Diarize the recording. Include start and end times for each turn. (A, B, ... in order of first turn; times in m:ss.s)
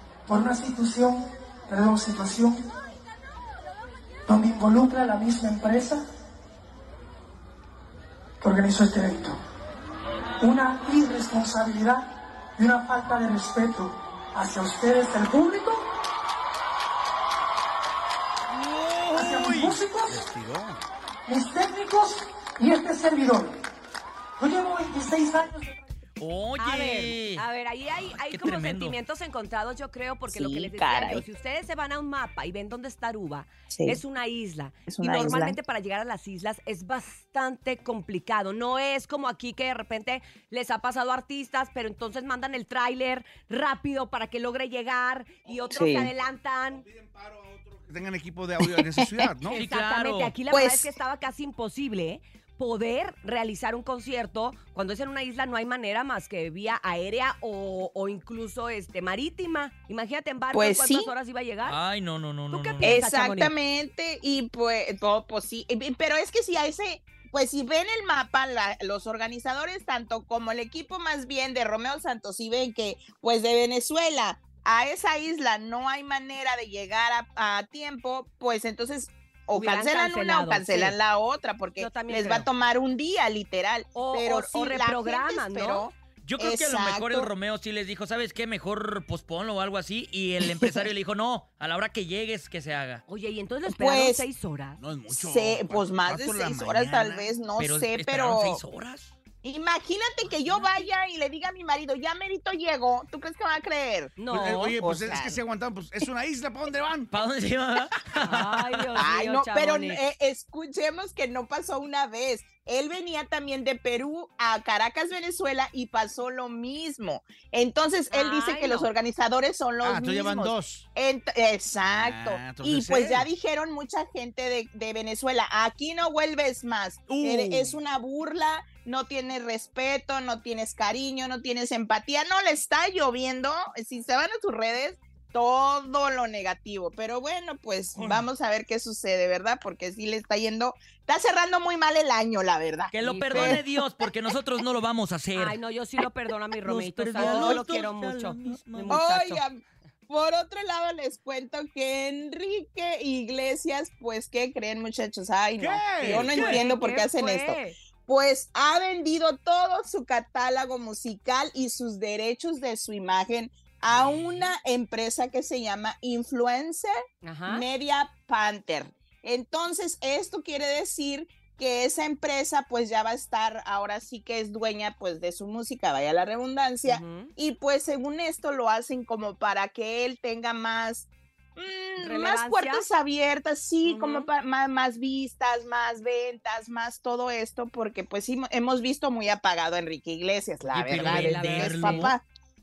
0:00.2-0:02.6 A
0:04.3-0:06.0 A
0:08.4-0:09.4 A
0:10.4-0:15.8 A
0:18.5-0:19.8 B
0:19.1-0:20.2 A
0:21.3-0:23.5 A
0:24.4-0:25.7 A
0:26.2-0:27.4 B
0:26.6-0:46.8 C
0:28.3-0:29.0 B
0:30.3-0:31.2 D
0:33.7-0:34.0 D
0:34.9-0:35.6 D
0:45.7-0:46.1 D
0:46.7-0:49.6 E
0:48.6-0:49.3 D
0:49.5-1:01.8 C
0:49.5-0:50.3 B
0:50.5-0:50.9 D
1:00.5-1:01.1 D
1:01.6-1:03.0 B
1:02.5-1:03.5 C
1:02.8-1:27.3 D
1:19.5-1:21.0 C
1:21.8-1:22.5 C
1:23.9-1:25.9 C
1:26.2-1:33.0 B
1:30.4-1:30.8 D
1:33.1-1:34.8 C
1:33.7-1:34.2 D
1:34.8-1:37.3 E
1:35.1-1:38.6 D
1:37.6-1:39.1 B
1:39.4-1:44.2 D
1:44.2-1:44.8 C
1:44.3-1:47.1 E
1:44.8-1:45.4 D
1:47.1-1:48.5 B
1:48.2-1:50.0 C
1:49.0-2:23.6 D
1:58.1-1:58.9 C
1:59.8-2:00.8 E
2:01.8-2:03.3 E
2:07.1-2:07.8 B
2:17.9-2:18.3 B
2:22.9-2:25.6 B
2:23.0-2:23.6 C
2:25.3-2:29.4 C
2:26.6-2:29.0 B
2:27.2-2:27.6 D
2:28.9-2:46.9 D
2:35.6-2:36.5 E
2:36.1-2:36.6 B
2:36.3-2:37.8 C
2:43.9-2:44.5 B
2:47.2-2:47.6 C
2:47.5-3:12.2 D
2:56.8-2:57.3 C
3:02.0-3:02.8 C
3:03.8-3:04.3 C
3:10.6-3:12.2 B
3:11.0-3:12.1 C